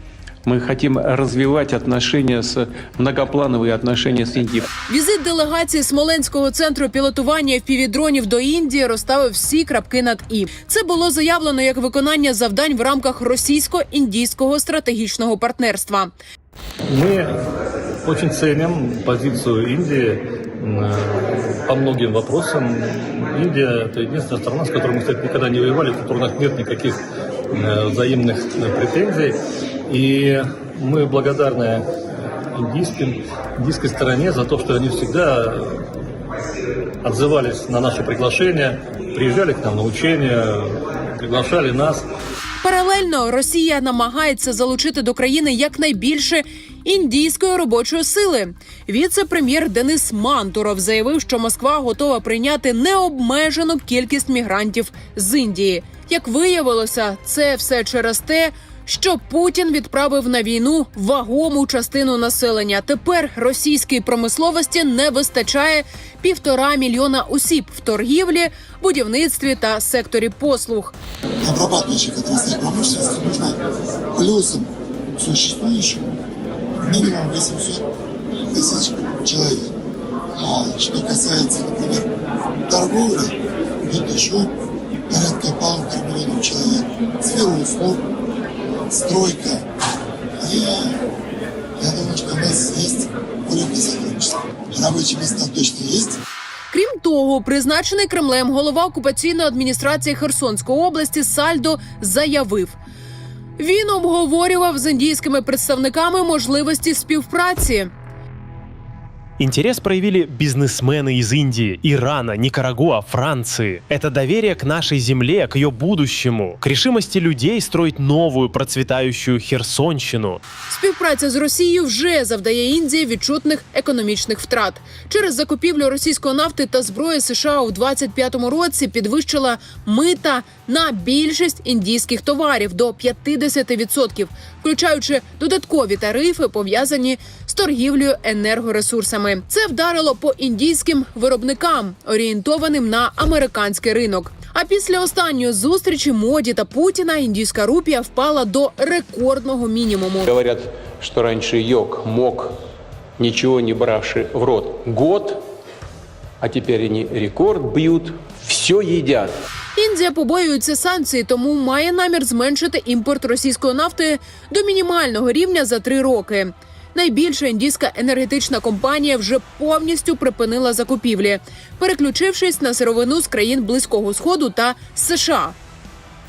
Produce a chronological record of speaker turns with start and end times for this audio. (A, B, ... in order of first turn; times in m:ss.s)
0:00.4-0:04.7 A
0:04.9-0:16.1 B
0:16.9-0:17.4 C
0:18.0-0:31.9 C
0:32.5-0:35.9 C
0:37.0-0:42.1 C
0:42.6-1:11.0 B
1:11.4-1:13.6 D
1:14.2-1:16.1 D
1:16.8-1:17.8 D
1:18.5-1:19.7 D
1:20.4-1:22.1 D
1:22.7-1:24.5 D
1:25.1-1:28.0 D
1:28.9-1:29.6 D
1:30.4-1:31.0 D
1:31.8-1:36.2 D
1:36.7-1:42.8 B
1:43.6-1:47.9 B
1:49.4-2:00.4 E
2:00.7-2:30.3 B
2:30.3-2:32.6 A
2:33.2-2:35.4 A
2:36.4-2:39.4 A
2:39.8-2:55.6 B